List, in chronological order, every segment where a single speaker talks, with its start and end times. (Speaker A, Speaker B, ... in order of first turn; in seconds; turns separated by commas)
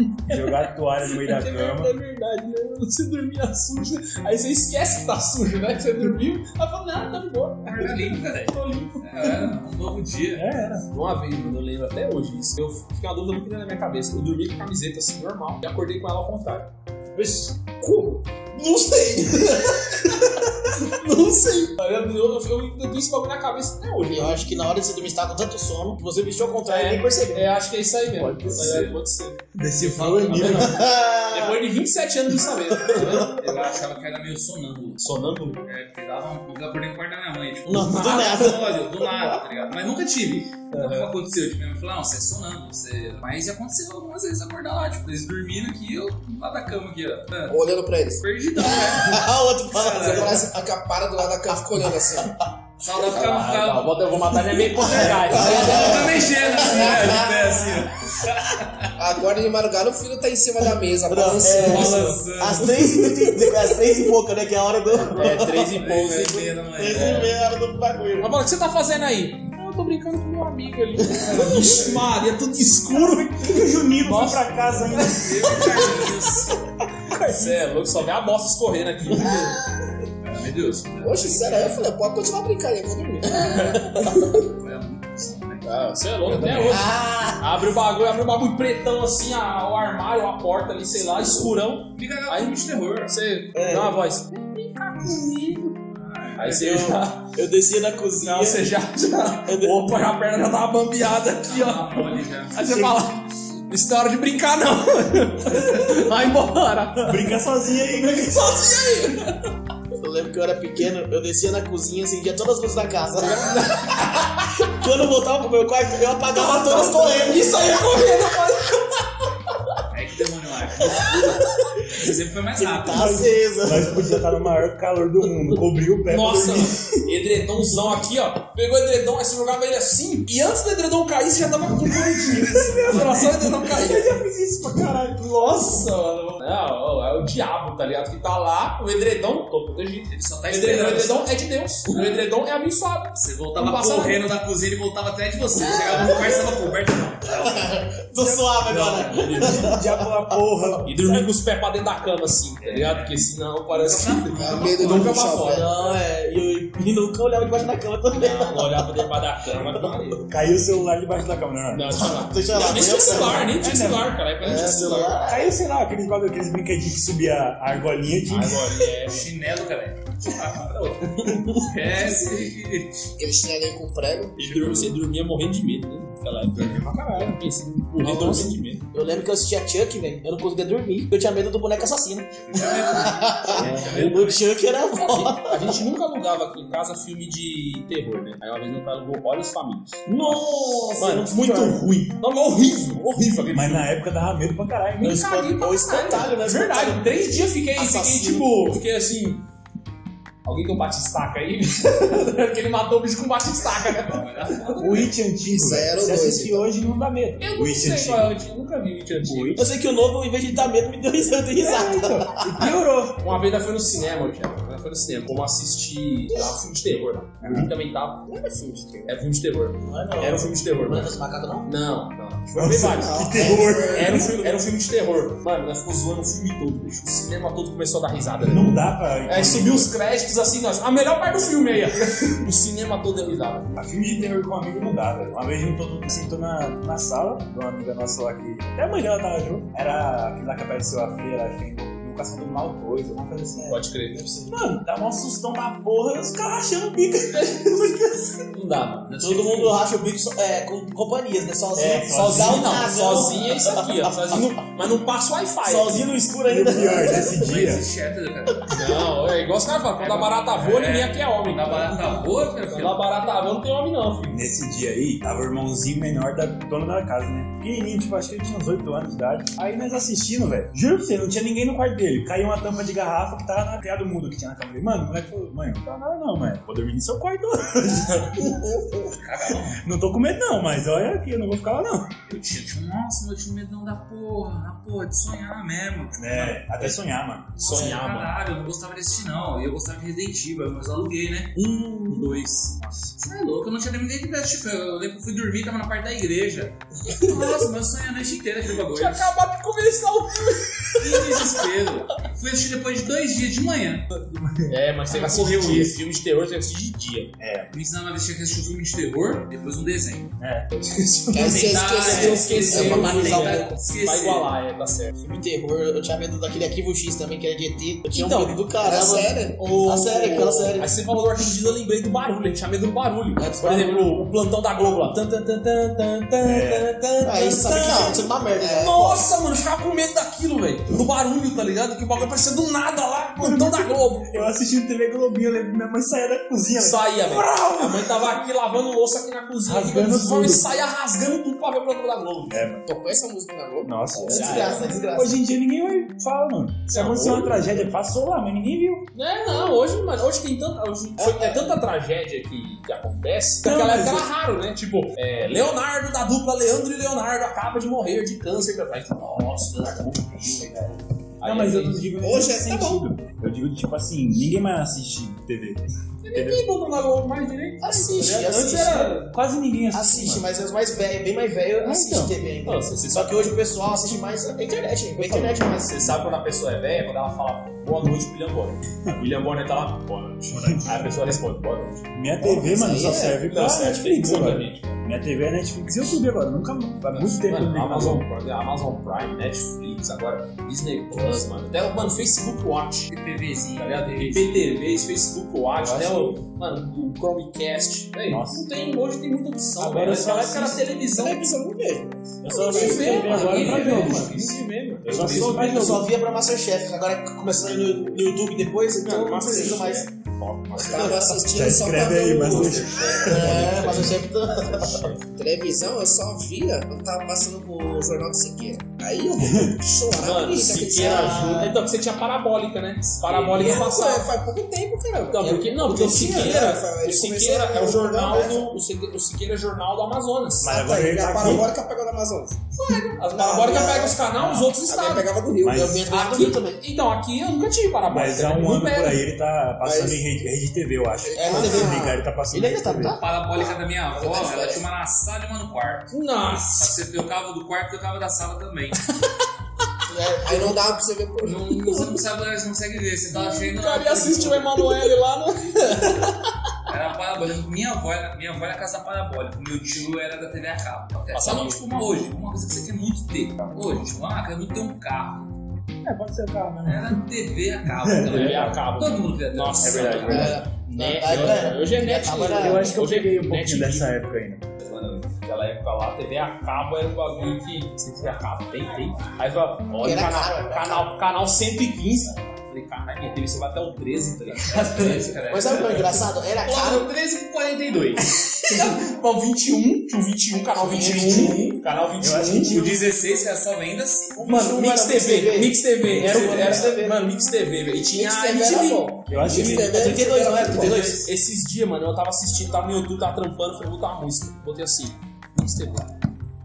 Speaker A: 0.2-9.4, Speaker B: 0.3-1.9, Speaker C: 7.7-10.5, Speaker B: 10.3-10.9, Speaker A: 10.9-16.7, Speaker A: 17.7-24.6, Speaker D: 24.1-27.6, Speaker A: 26.7-33.5, Speaker B: 28.1-28.9, Speaker C: 28.5-28.9, Speaker B: 29.5-30.9, Speaker D: 30.0-31.6, Speaker D: 32.7-33.5, Speaker C: 33.0-47.6, Speaker A: 35.0-35.6, Speaker D: 37.7-39.4, Speaker A: 40.7-41.1, Speaker E: 47.5-48.2, Speaker C: 48.2-50.4, Speaker D: 48.6-50.6, Speaker E: 50.0-52.4, Speaker C: 52.8-58.9, Speaker A: 53.1-56.3, Speaker B: 53.3-53.7, Speaker D: 54.8-57.8, Speaker E: 59.0-62.1, Speaker D: 61.1-65.8, Speaker C: 61.6-63.0, Speaker A: 65.0-67.2, Speaker C: 65.2-67.3, Speaker D: 66.8-68.3, Speaker A: 68.2-74.4, Speaker D: 71.2-71.7, Speaker C: 71.5-71.8, Speaker B: 72.9-75.7, Speaker C: 74.9-76.6, Speaker B: 77.0-77.6, Speaker A: 77.1-79.6, Speaker D: 79.1-79.6, Speaker C: 80.2-81.9, Speaker E: 81.0-84.2, Speaker A: 83.4-84.2, Speaker C: 84.0-86.8, Speaker A: 85.6-95.8, Speaker D: 86.4-87.5, Speaker C: 91.9-93.2, Speaker D: 93.5-94.0, Speaker C: 95.9-96.7, Speaker A: 96.4-97.3, Speaker D: 96.6-98.8, Speaker A: 98.2-109.5, Speaker D: 99.4-100.0, Speaker C: 101.4-102.7, Speaker B: 107.0-108.7, Speaker D: 110.0-118.3, Speaker A: 113.2-114.7, Speaker A: 116.3-119.0, Speaker C: 119.9-123.2, Speaker D: 120.8-121.7, Speaker D: 122.5-124.4, Speaker B: 122.9-127.1, Speaker A: 126.1-134.2, Speaker B: 132.0-135.9, Speaker C: 132.2-133.6, Speaker A: 135.4-144.3, Speaker C: 140.1-141.4, Speaker C: 143.2-149.6, Speaker D: 145.6-150.7, Speaker B: 148.7-151.3, Speaker A: 149.2-149.6, Speaker A: 150.8-156.0, Speaker C: 152.6-155.4, Speaker E: 154.4-155.7, Speaker D: 155.4-160.0, Speaker A: 158.2-160.3, Speaker B: 160.3-162.0, Speaker A: 161.7-165.2, Speaker D: 161.9-163.6, Speaker B: 163.2-164.2, Speaker D: 164.4-165.6, Speaker B: 165.2-168.8, Speaker A: 168.3-169.3, Speaker C: 169.1-173.1, Speaker A: 170.7-172.0, Speaker E: 173.2-174.4, Speaker A: 174.4-178.9, Speaker C: 174.4-174.9, Speaker B: 176.6-177.2, Speaker D: 178.0-185.8, Speaker C: 182.3-184.6, Speaker A: 183.5-184.3, Speaker A: 184.9-193.9, Speaker D: 190.1-191.9, Speaker B: 193.5-195.3, Speaker D: 195.0-198.8, Speaker A: 195.0-199.4, Speaker A: 200.4-205.1, Speaker C: 203.9-205.1, Speaker B: 204.8-208.3, Speaker E: 205.5-206.7, Speaker A: 207.4-209.7, Speaker B: 209.2-209.7, Speaker D: 209.6-212.7, Speaker B: 211.6-213.2, Speaker A: 213.2-218.3, Speaker B: 217.4-217.7, Speaker E: 218.3-219.1, Speaker A: 219.1-221.1, Speaker D: 219.8-221.7, Speaker A: 221.6-233.7, Speaker B: 222.5-224.4, Speaker E: 222.8-224.4, Speaker D: 223.4-223.9, Speaker B: 228.4-229.9, Speaker B: 233.7-243.8, Speaker D: 243.6-244.5, Speaker A: 243.7-244.3, Speaker B: 244.5-248.4, Speaker A: 248.5-249.1, Speaker C: 249.0-249.8, Speaker D: 249.2-254.6, Speaker B: 251.8-252.9, Speaker A: 251.8-256.1, Speaker D: 255.6-257.3, Speaker B: 256.5-257.9, Speaker C: 257.2-258.9, Speaker A: 258.7-264.4, Speaker C: 260.0-263.0, Speaker B: 264.3-278.8, Speaker C: 279.1-279.8, Speaker B: 279.5-282.1, Speaker C: 282.3-287.0, Speaker B: 286.2-288.0, Speaker C: 287.6-299.3, Speaker A: 287.6-288.4, Speaker A: 291.6-292.3, Speaker A: 298.8-301.7, Speaker C: 301.0-304.1, Speaker A: 304.7-307.3, Speaker C: 305.1-306.0, Speaker B: 307.4-307.8, Speaker C: 307.7-310.4, Speaker B: 310.4-310.7, Speaker A: 310.8-315.1, Speaker E: 311.3-313.6, Speaker C: 311.4-314.5, Speaker D: 312.7-313.8, Speaker D: 315.2-321.0, Speaker A: 318.1-318.6, Speaker E: 318.8-319.7, Speaker A: 319.6-334.5, Speaker D: 323.4-324.3, Speaker B: 326.4-326.9, Speaker D: 327.2-329.2, Speaker E: 327.7-329.0, Speaker B: 333.4-338.3, Speaker A: 336.8-342.6, Speaker B: 339.6-340.7, Speaker B: 342.5-342.9, Speaker E: 342.8-344.7, Speaker B: 343.8-349.1, Speaker A: 344.2-345.0, Speaker D: 344.2-345.4, Speaker A: 346.9-347.9, Speaker A: 349.1-359.6, Speaker E: 351.2-351.7, Speaker B: 353.6-354.3, Speaker C: 359.3-361.0, Speaker A: 361.4-362.1, Speaker B: 361.4-366.6, Speaker E: 362.2-363.1, Speaker A: 366.2-369.4, Speaker D: 367.8-369.2, Speaker B: 369.3-370.5, Speaker D: 369.9-376.0, Speaker B: 371.8-372.3, Speaker A: 372.6-373.5, Speaker A: 375.1-382.1, Speaker B: 380.5-381.2, Speaker B: 382.1-388.3, Speaker E: 382.4-383.4, Speaker A: 383.2-385.0, Speaker A: 387.1-393.1, Speaker C: 393.1-394.8, Speaker A: 393.8-401.5, Speaker B: 395.7-396.4, Speaker B: 398.3-398.7, Speaker B: 399.8-400.9, Speaker E: 401.1-403.1, Speaker B: 402.4-404.5, Speaker A: 402.5-406.1, Speaker D: 402.5-403.2, Speaker C: 402.9-404.6, Speaker B: 405.0-406.1, Speaker D: 405.1-410.1, Speaker A: 407.6-408.2, Speaker A: 409.0-411.3, Speaker E: 410.8-414.1, Speaker D: 410.9-411.4, Speaker B: 411.5-414.2, Speaker A: 412.4-415.2, Speaker D: 413.1-415.1, Speaker E: 415.2-421.5, Speaker B: 419.4-419.8, Speaker A: 420.2-424.3, Speaker D: 421.0-421.9, Speaker E: 423.3-428.6, Speaker A: 425.3-430.8, Speaker D: 425.4-426.8, Speaker D: 428.2-428.6, Speaker B: 430.6-431.7, Speaker D: 430.7-431.6, Speaker E: 430.8-432.6, Speaker A: 432.7-435.3, Speaker D: 433.4-434.2, Speaker E: 433.5-434.0, Speaker B: 434.2-434.8, Speaker E: 434.9-436.8, Speaker B: 435.6-436.1, Speaker A: 436.1-439.2, Speaker B: 438.1-443.2, Speaker E: 439.8-440.2, Speaker E: 441.2-442.2, Speaker D: 441.4-443.3, Speaker C: 443.2-449.1, Speaker E: 444.1-444.8, Speaker A: 446.1-446.9, Speaker D: 450.1-451.0, Speaker E: 450.4-452.0, Speaker C: 451.4-454.9, Speaker A: 453.6-456.4, Speaker E: 456.0-456.3, Speaker C: 456.9-465.5, Speaker A: 461.3-461.8, Speaker B: 466.0-467.2, Speaker C: 466.9-470.6, Speaker B: 467.9-468.9, Speaker A: 468.3-474.2, Speaker B: 469.8-470.7, Speaker D: 470.5-473.0, Speaker B: 472.4-474.7, Speaker A: 474.8-485.4, Speaker D: 480.0-481.1, Speaker C: 484.6-486.3, Speaker D: 485.5-487.1, Speaker A: 486.5-492.8, Speaker B: 490.8-493.1, Speaker D: 490.9-491.7, Speaker C: 492.7-494.4, Speaker D: 494.4-497.2, Speaker A: 494.4-506.1, Speaker E: 498.1-501.1, Speaker B: 499.3-500.2, Speaker D: 499.9-501.3